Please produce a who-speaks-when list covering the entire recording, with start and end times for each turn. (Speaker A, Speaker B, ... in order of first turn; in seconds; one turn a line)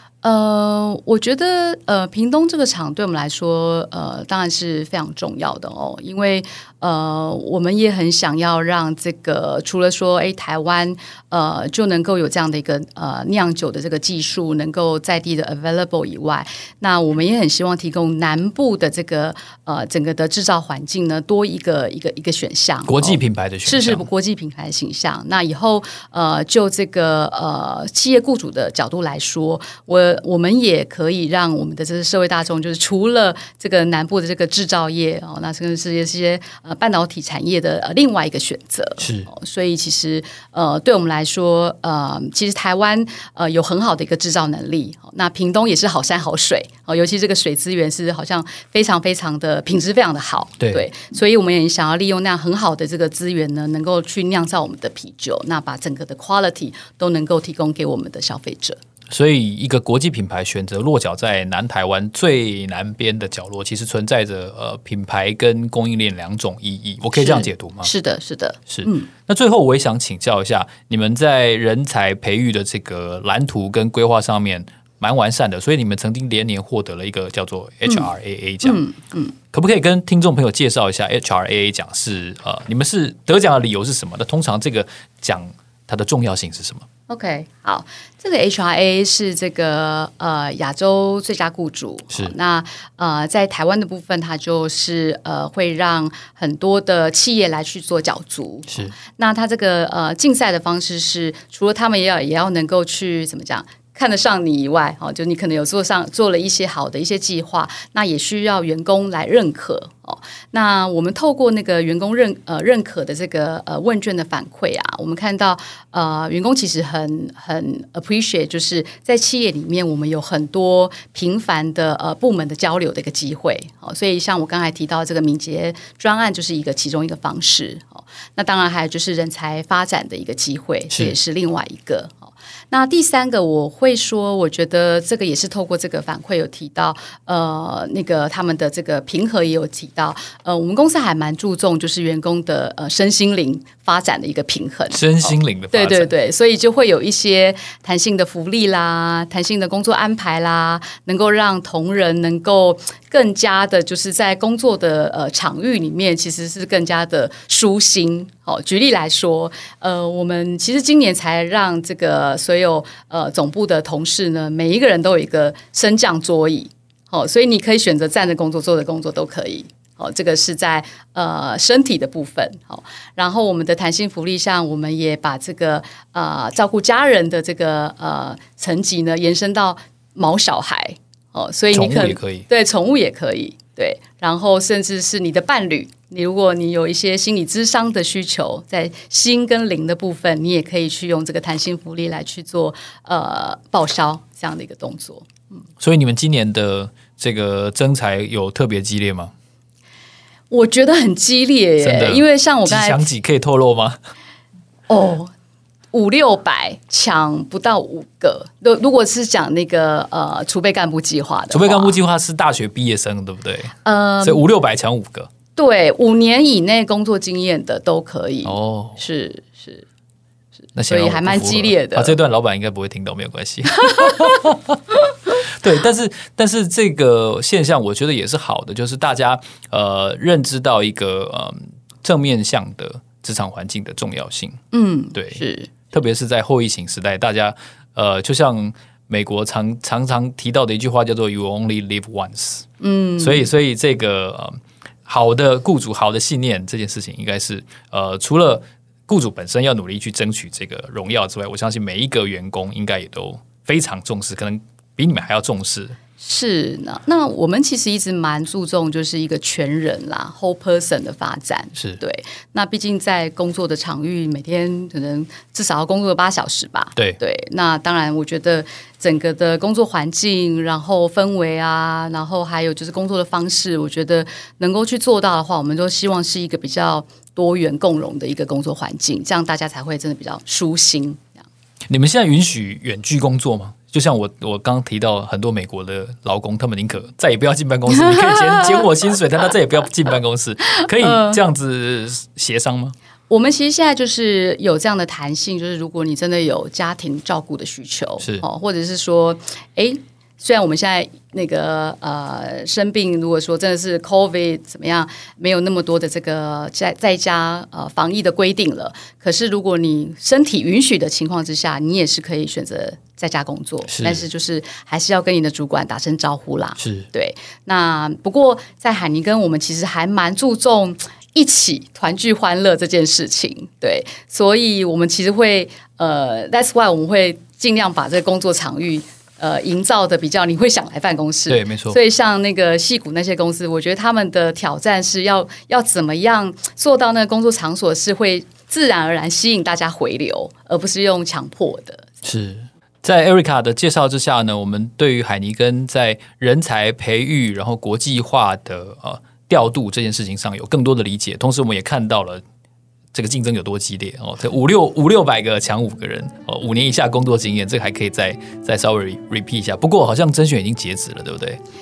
Speaker A: 0.2-58.8
Speaker B: 22.9-24.1
Speaker B: 39.0-39.3
Speaker B: 50.6-50.9
Speaker B: 59.1-67.9
Speaker A: 67.2-69.1
Speaker B: 68.7-78.8
Speaker A: 78.6-79.3
Speaker B: 79.5-86.8
Speaker A: 87.1-195.3
Speaker B: 144.9-146.1
Speaker B: 181.7-182.4
Speaker B: 195.8-199.3
Speaker A: 200.5-203.0
Speaker B: 201.8-204.0
Speaker A: 204.9-205.3
Speaker A: 205.9-212.0
Speaker B: 211.5-215.3
Speaker A: 213.8-214.4
Speaker A: 215.6-219.8
Speaker B: 218.4-219.0
Speaker B: 220.7-234.6
Speaker A: 220.9-222.2
Speaker A: 223.8-224.5
Speaker A: 234.7-235.7
Speaker B: 235.1-242.7
Speaker A: 242.8-243.5
Speaker B: 243.2-256.0
Speaker A: 256.2-281.4
Speaker B: 281.9-292.9
Speaker A: 287.9-288.8
Speaker A: 290.6-291.4
Speaker A: 293.3-342.1
Speaker B: 313.9-314.2
Speaker B: 316.8-317.1
Speaker B: 331.5-332.0
Speaker B: 342.2-352.4
Speaker B: 353.1-361.6